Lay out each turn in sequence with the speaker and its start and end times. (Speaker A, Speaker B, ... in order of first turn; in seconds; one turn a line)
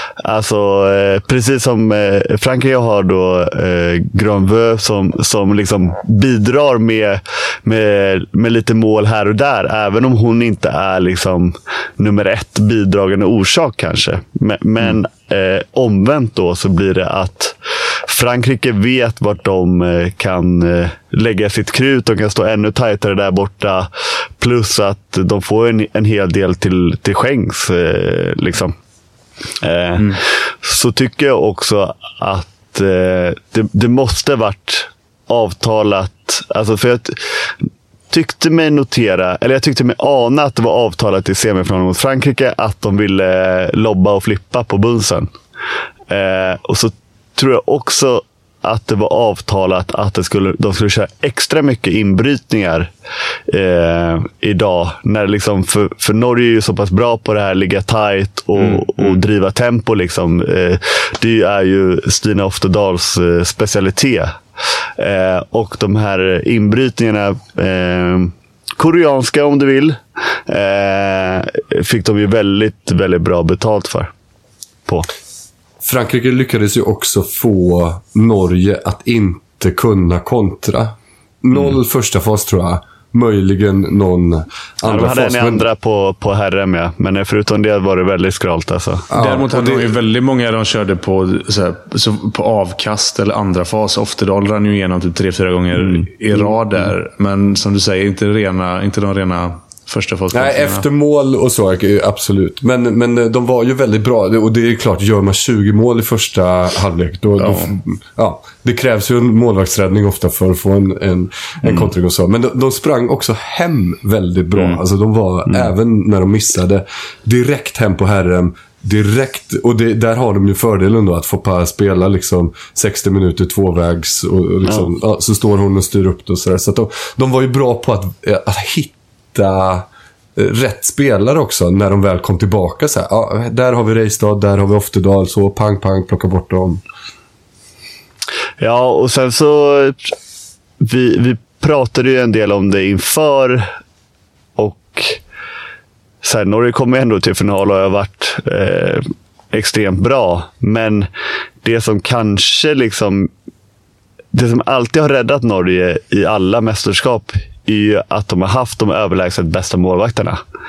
Speaker A: 0.2-17.6
Speaker A: 18.1-28.8
Speaker A: 29.6-37.5
Speaker A: 38.1-45.3
Speaker A: 46.1-52.9
Speaker A: 53.5-64.4
Speaker B: 58.6-59.2
Speaker A: 65.0-74.1
Speaker C: 75.8-85.7
Speaker A: 84.8-89.1
Speaker C: 89.1-90.0
Speaker B: 89.2-100.8
Speaker C: 100.3-136.8
Speaker B: 107.4-107.7
Speaker A: 138.6-140.2
Speaker A: 140.8-143.7
Speaker A: 144.6-145.2
Speaker A: 146.2-151.1
Speaker A: 151.6-153.3
Speaker A: 154.3-160.4